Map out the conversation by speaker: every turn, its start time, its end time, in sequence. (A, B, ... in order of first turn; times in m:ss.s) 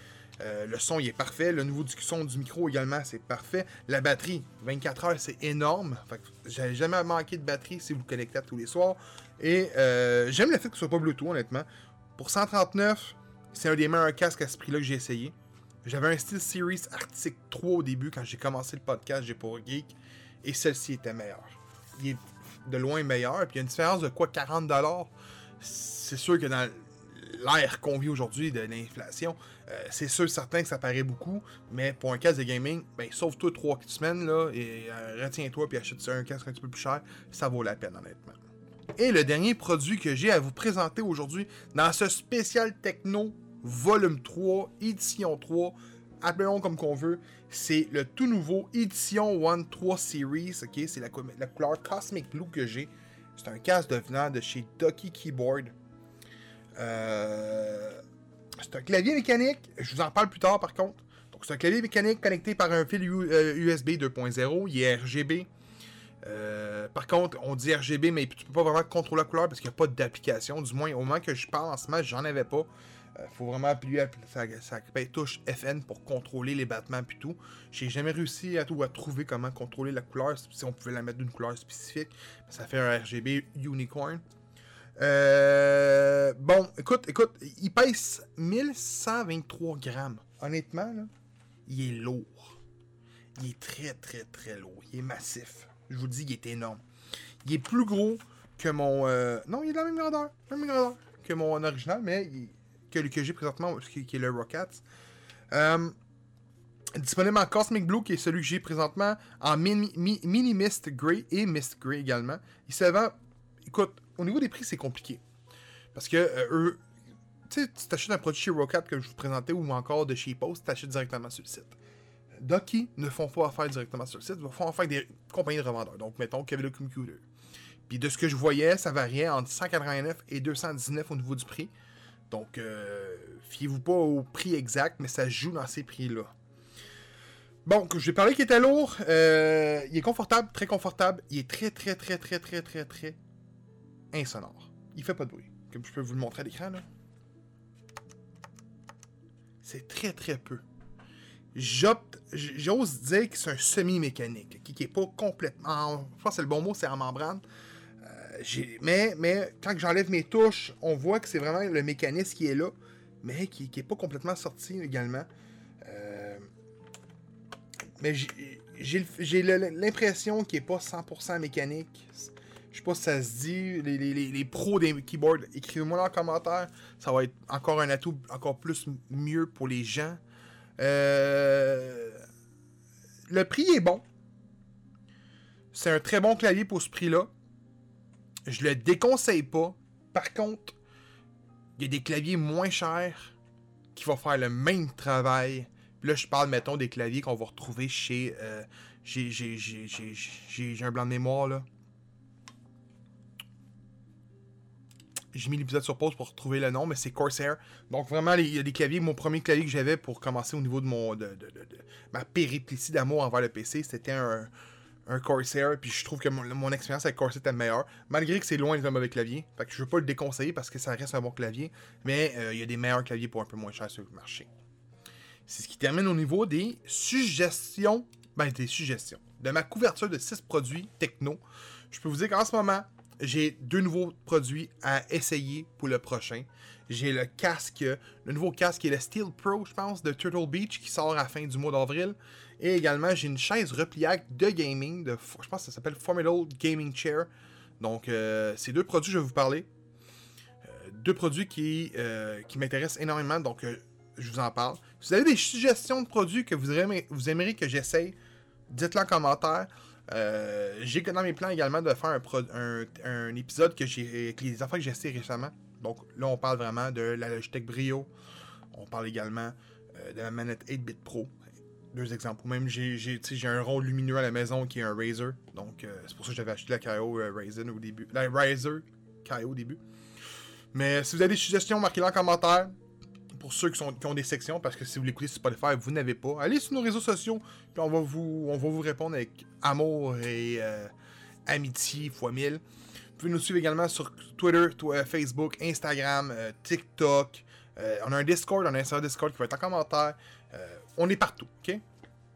0:00.4-0:38.4 A
0:39.0-0:55.7 A
0:56.8-0:58.0 A
0:58.6-1:05.5 A
1:06.2-1:24.2 A
1:25.0-1:31.1 A
1:31.7-1:32.6 A
1:33.4-1:36.8 A
1:37.4-1:44.8 A
1:45.5-1:46.0 A
1:47.0-1:55.2 A
1:55.9-1:56.8 A
1:57.5-2:01.8 A
2:02.4-2:07.2 A
2:07.9-2:11.7 A
2:12.3-2:16.3 A
2:17.6-2:23.2 A
2:24.1-2:26.8 A
2:29.6-2:30.6 A
2:31.5-2:37.4 A
2:38.0-2:45.3 A
2:45.8-2:46.5 A
2:48.0-3:00.2 A
3:00.8-3:02.2 A
3:03.3-3:04.0 A
3:05.7-3:07.3 A
3:08.5-3:10.8 A
3:11.8-3:13.4 A
3:13.9-3:21.7 A
3:25.3-3:34.5 A
3:35.1-3:44.5 A
3:45.5-4:07.3 A
4:07.8-4:09.7 A
4:10.6-4:18.2 A
4:18.7-4:28.1 A
4:28.7-4:31.3 A
4:31.9-4:39.8 A
4:40.7-4:42.7 A
4:43.4-4:50.9 A
4:51.5-4:52.6 A
4:53.2-5:01.8 A